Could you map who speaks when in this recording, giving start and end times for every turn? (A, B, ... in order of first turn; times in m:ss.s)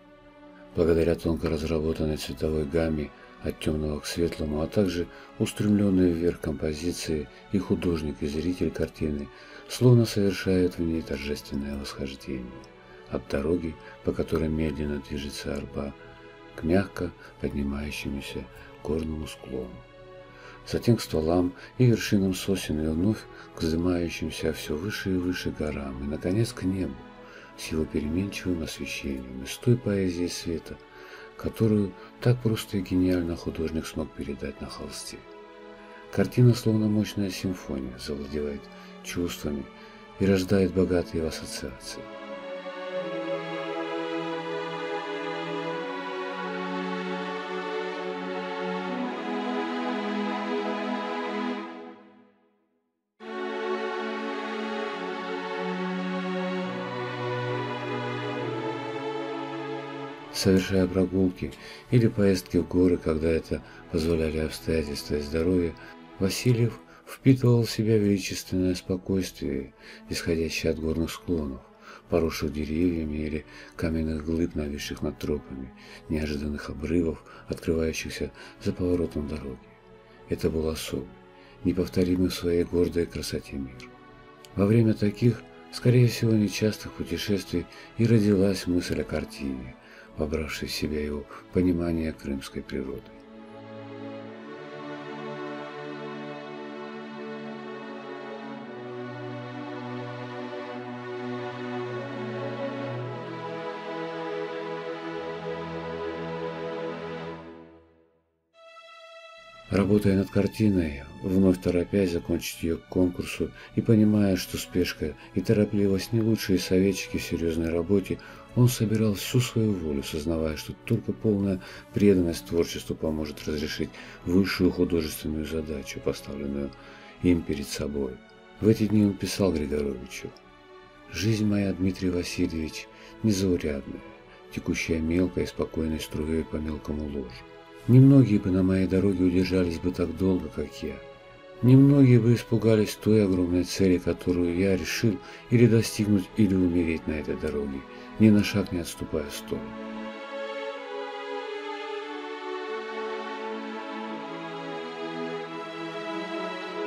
0:00.7-0:16.0 A
0:16.5-0:19.9 A
0:20.6-0:30.8 A
0:31.4-0:35.3 A
0:36.1-0:42.1 A
1:00.3-1:23.9 A
1:24.5-1:33.2 A
1:49.7-2:10.4 A
2:11.1-2:21.0 A
2:21.6-2:29.8 A